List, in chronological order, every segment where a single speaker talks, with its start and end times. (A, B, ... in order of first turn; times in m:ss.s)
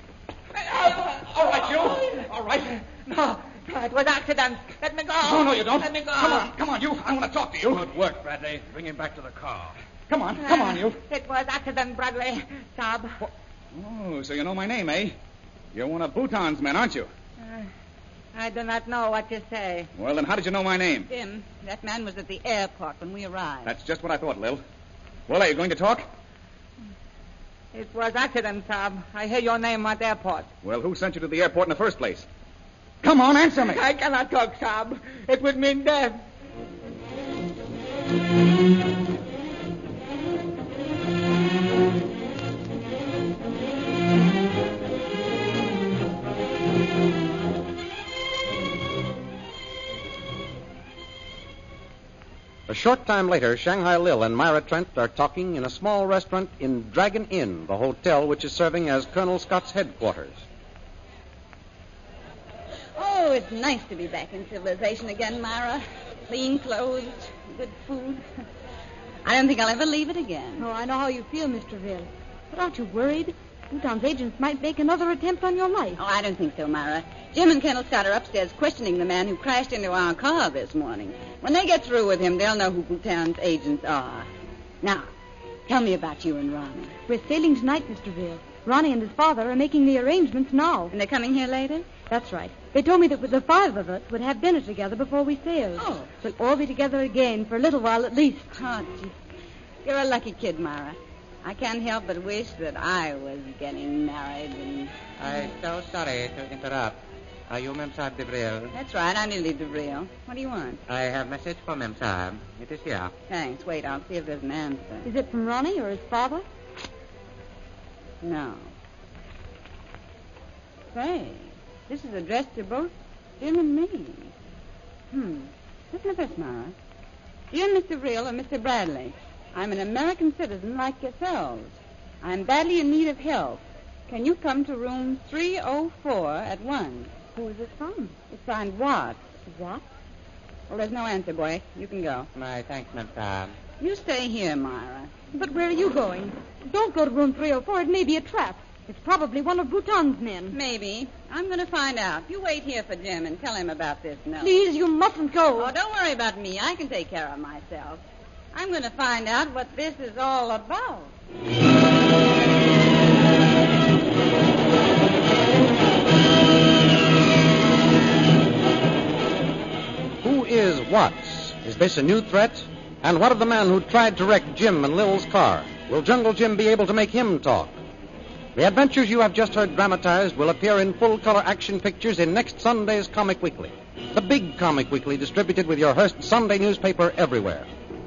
0:00.6-0:02.1 A
0:03.2-0:06.4 B
0:05.2-0:07.8 A
0:07.5-0:09.8 C
0:10.1-0:11.0 A
0:10.4-0:13.2 B
0:13.7-0:15.2 A
0:15.7-0:17.1 A
0:18.3-0:19.9 B
0:19.9-0:21.1 A
0:21.1-0:23.7 B
0:23.6-0:24.6 A
0:25.3-0:26.0 A
0:27.7-0:30.5 B
0:30.6-0:32.2 A
0:33.0-0:33.8 A
0:33.7-0:36.2 B
0:52.7-1:00.4 D
1:03.0-1:08.2 B
1:09.2-1:10.7 B
1:10.6-1:16.0 E
1:16.0-1:24.3 B
1:24.8-1:25.1 B
1:25.7-1:26.9 B
1:27.1-1:30.9 E
1:30.9-1:31.9 B
1:32.0-1:38.6 E
1:35.8-1:36.1 B
1:38.5-1:39.1 B
1:39.8-1:44.9 B
1:45.2-1:48.7 F
1:48.7-1:50.8 B
1:50.9-1:53.1 F
1:53.3-1:55.1 B
1:55.0-1:56.4 E
1:58.2-1:58.7 B
2:00.9-2:04.3 B
2:05.1-2:06.8 B
2:07.5-2:17.2 B
2:17.3-2:18.2 E
2:18.2-2:19.4 B
2:19.4-2:19.8 E
2:20.7-2:22.3 B
2:22.3-2:23.6 F
2:23.8-2:25.2 B
2:25.3-2:30.6 E
2:30.5-2:34.6 B
2:34.4-2:35.7 E
2:35.5-2:38.0 B
2:38.5-2:41.1 B
2:50.2-2:57.8 D
2:58.5-3:07.7 D